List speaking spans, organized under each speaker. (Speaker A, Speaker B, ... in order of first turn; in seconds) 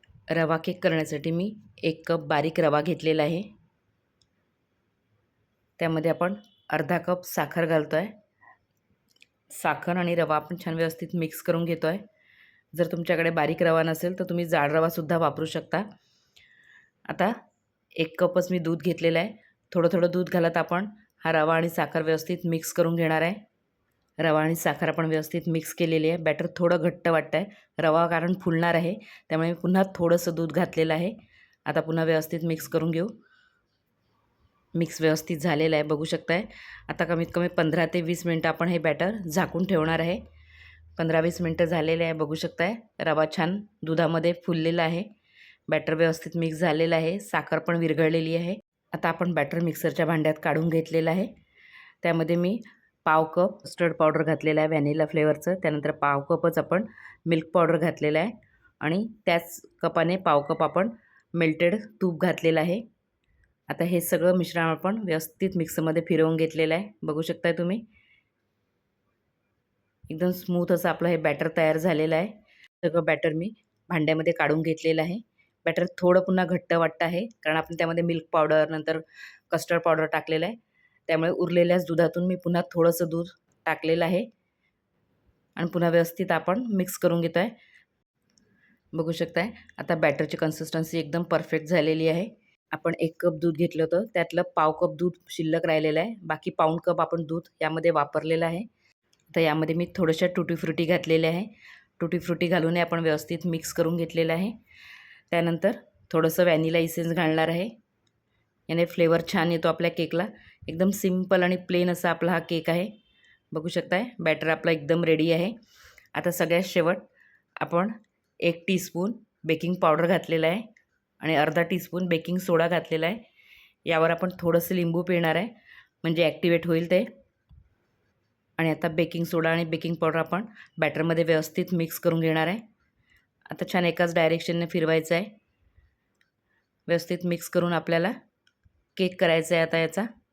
Speaker A: 0.3-3.5, 5.8-8.1, 9.5-12.0, 12.7-15.9, 17.1-17.4, 18.0-23.4, 24.2-31.1, 31.7-33.1, 34.8-40.2, 41.0-45.1, 45.7-51.3, 52.0-62.8, 63.7-67.8, 70.1-80.6, 81.1-84.3, 85.6-87.5, 88.9-98.7, 99.3-104.6, 105.3-107.7, 108.7-112.9, 113.5-115.5, 116.2-117.1, 117.6-120.7, 121.2-123.2, 123.9-125.5, 126.0-127.1, 128.6-132.6, 133.5-135.3, 136.9-138.2, 139.0-140.1